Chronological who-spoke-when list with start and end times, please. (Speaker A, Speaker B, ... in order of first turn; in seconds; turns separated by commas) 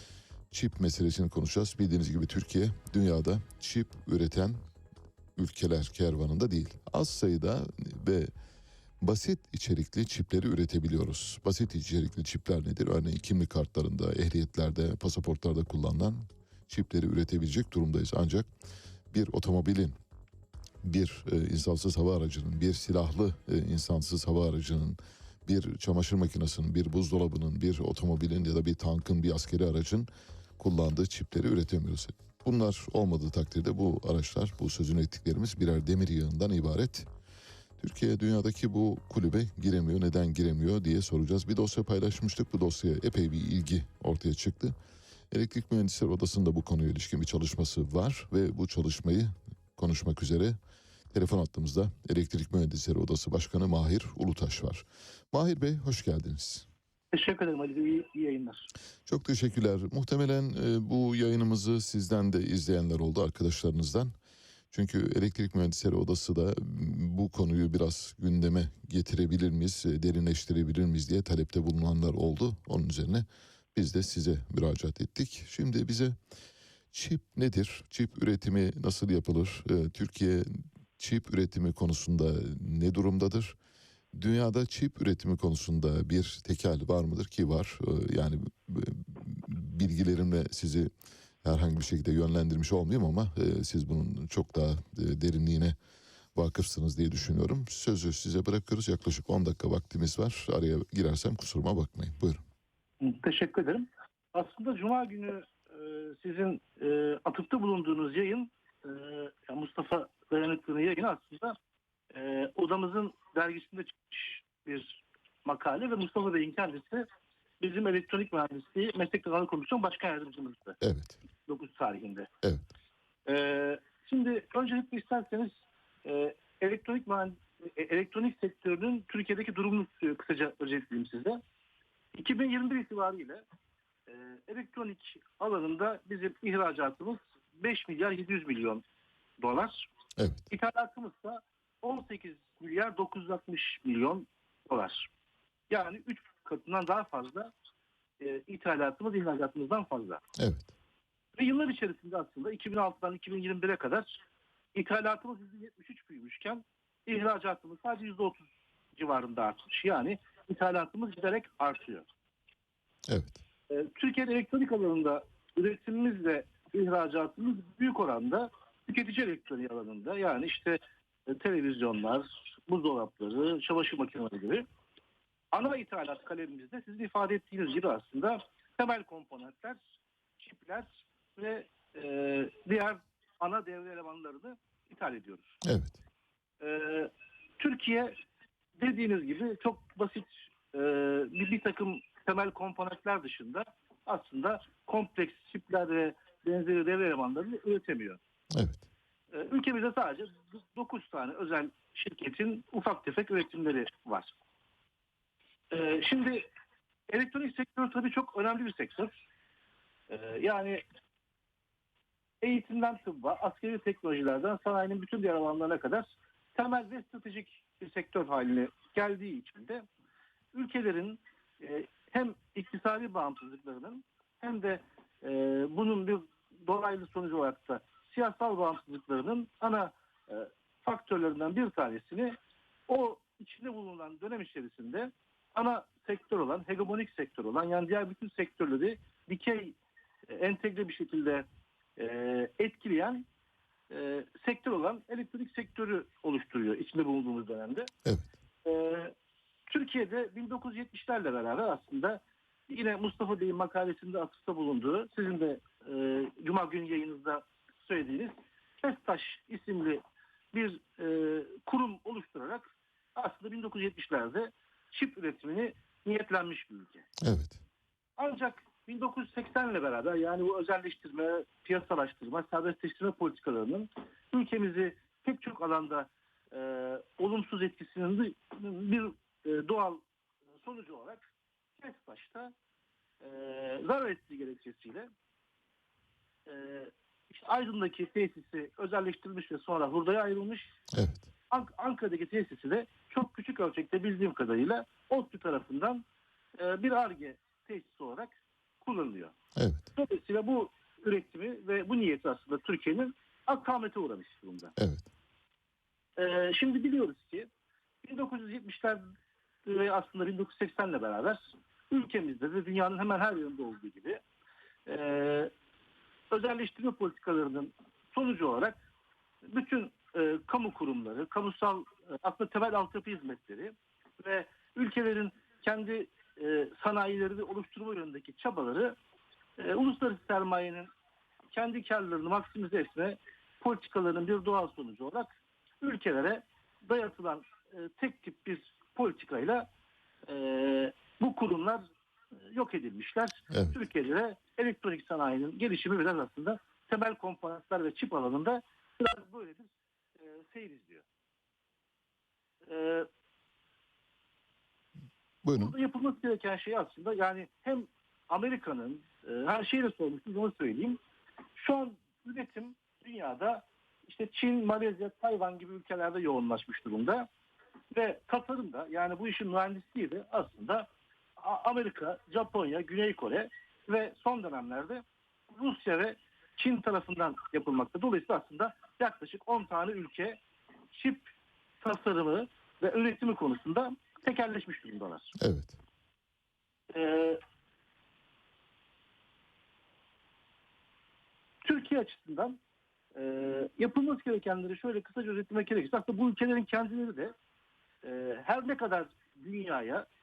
Speaker A: 0.5-4.6, Speaker A: 5.4-8.3, Speaker A: 9.0-18.5, Speaker A: 19.1-19.9, Speaker A: 20.8-37.1, Speaker A: 37.8-44.8, Speaker A: 45.3-50.5, Speaker A: 51.1-56.7, Speaker B: 57.1-58.7, Speaker A: 59.1-64.1, Speaker A: 64.7-76.2, Speaker A: 76.9-83.6, Speaker A: 84.1-90.9, Speaker A: 91.4-95.8, Speaker A: 96.3-102.4, Speaker B: 103.0-111.5, Speaker B: 112.1-117.0, Speaker B: 117.6-120.8, Speaker A: 120.8-121.2, Speaker B: 121.5-122.3, Speaker B: 123.3-131.4, Speaker B: 132.2-133.4, Speaker B: 134.1-138.8, Speaker B: 139.4-139.9, Speaker A: 140.2-140.5, Speaker B: 140.5-145.1, Speaker B: 145.7-147.5, Speaker B: 148.2-150.2, Speaker A: 150.4-150.7, Speaker B: 151.4-154.2, Speaker B: 154.7-162.1, Speaker A: 163.1-163.4, Speaker B: 163.7-174.6, Speaker B: 175.5-179.8, Speaker B: 180.4-185.6, Speaker A: 185.6-186.0, Speaker B: 186.6-188.1, Speaker B: 188.8-198.2, Speaker A: 198.6-198.9, Speaker B: 199.3-204.4, Speaker B: 205.7-206.5, Speaker B: 207.1-209.1, Speaker B: 210.1-210.8, Speaker B: 212.4-219.8, Speaker B: 220.5-232.3, Speaker B: 232.9-241.5, Speaker B: 242.0-243.3, Speaker B: 243.9-247.9, Speaker A: 248.1-248.3, Speaker B: 248.7-249.1, Speaker B: 249.7-260.0, Speaker B: 260.5-267.0, Speaker A: 267.2-267.6, Speaker B: 268.2-280.1, Speaker B: 280.6-281.3, Speaker B: 281.8-282.5, Speaker B: 283.2-285.1, Speaker B: 286.5-290.7, Speaker A: 290.9-291.3, Speaker B: 291.5-296.0, Speaker B: 296.6-299.3, Speaker A: 299.6-299.9, Speaker B: 300.0-304.7, Speaker A: 304.8-305.1, Speaker B: 306.2-307.5, Speaker B: 308.0-309.0, Speaker B: 309.7-314.2, Speaker B: 314.9-315.5, Speaker B: 316.3-318.8, Speaker B: 319.5-329.0, Speaker B: 329.6-330.9, Speaker B: 331.5-339.7, Speaker B: 340.3-341.8, Speaker B: 342.5-351.1, Speaker B: 352.7-353.1, Speaker A: 355.4-355.8, Speaker B: 355.5-361.0, Speaker B: 361.6-367.3, Speaker B: 367.9-370.9, Speaker B: 371.4-380.4, Speaker B: 380.9-385.3, Speaker A: 385.4-385.8, Speaker B: 386.9-387.4, Speaker B: 391.6-392.6, Speaker B: 393.1-397.3, Speaker B: 398.0-400.1